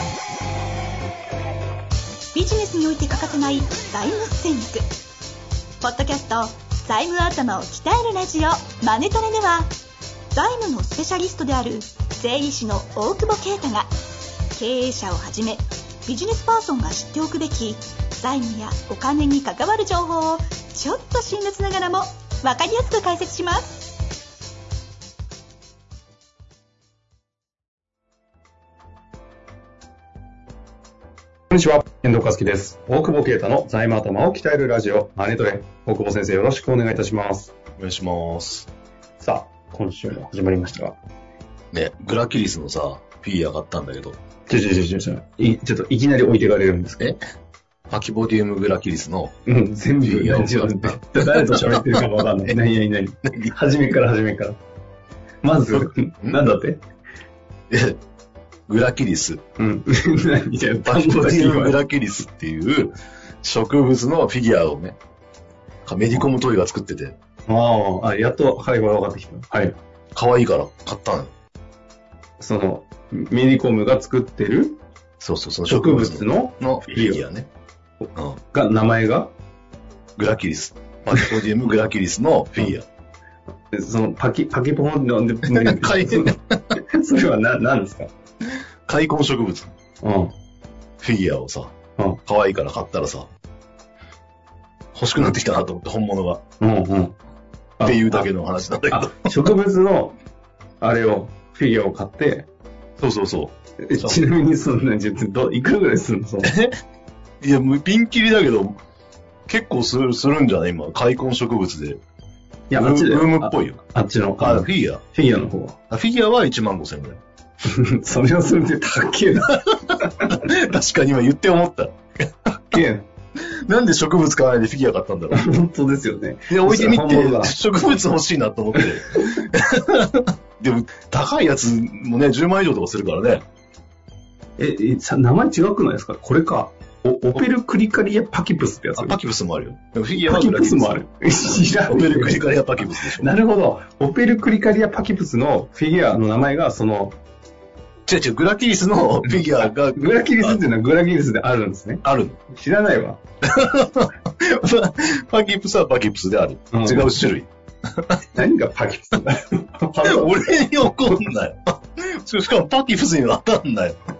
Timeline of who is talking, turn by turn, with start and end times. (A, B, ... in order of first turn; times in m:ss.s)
0:02.3-0:04.8 A
0:05.8-0:09.7 A
0:10.3-0:13.9 A
0:14.5-0:24.0 A
0:31.5-0:37.5 B
0:37.8-0:38.7 C
0:39.2-0:41.0 B
0:41.7-0:44.2 C
0:44.5-0:47.2 B
0:47.9-0:49.3 C
0:49.4-0:54.6 B
0:50.0-0:52.0 C
0:53.2-0:53.5 C
0:55.4-0:56.8 B
0:55.7-0:56.5 C
0:57.7-0:58.0 C
0:58.7-0:59.4 C
0:59.6-1:01.8 B
1:00.8-1:05.0 C
1:05.8-1:07.2 C
1:07.4-1:09.8 B
1:10.1-1:11.3 C
1:12.4-1:14.8 B
1:15.2-1:17.5 C
1:15.7-1:17.2 B
1:18.5-1:19.3 B
1:20.2-1:22.8 C
1:23.7-1:28.1 B
1:25.5-1:26.6 C
1:28.9-1:29.7 C
1:30.0-1:30.3 B
1:31.0-1:31.7 C
1:32.2-1:33.3 C
1:34.9-1:36.4 C
1:36.6-1:37.2 B
1:37.8-1:38.3 B
1:37.8-1:39.5 C
1:38.9-1:40.2 B
1:40.8-1:42.5 B
1:43.0-1:44.2 C
1:43.8-1:46.5 B
1:46.4-1:46.7 C
1:47.4-1:48.8 C
1:49.5-1:52.0 C
1:52.7-1:55.8 B
1:52.7-1:53.8 C
1:54.4-1:55.0 C
1:55.9-1:57.2 C
1:57.6-2:00.4 B
1:59.5-2:02.8 C
2:02.7-2:03.1 B
2:03.4-2:05.5 C
2:05.3-2:07.6 B
2:06.5-2:13.4 C
2:08.7-2:09.4 B
2:14.6-2:19.2 B
2:19.0-2:21.0 C
2:20.2-2:22.5 B
2:21.5-2:23.3 C
2:23.2-2:27.2 B
2:28.1-2:30.6 C
2:29.6-2:33.2 B
2:32.0-2:32.4 C
2:33.5-2:37.5 C
2:36.7-2:37.2 B
2:38.3-2:41.2 B
2:40.0-2:44.0 C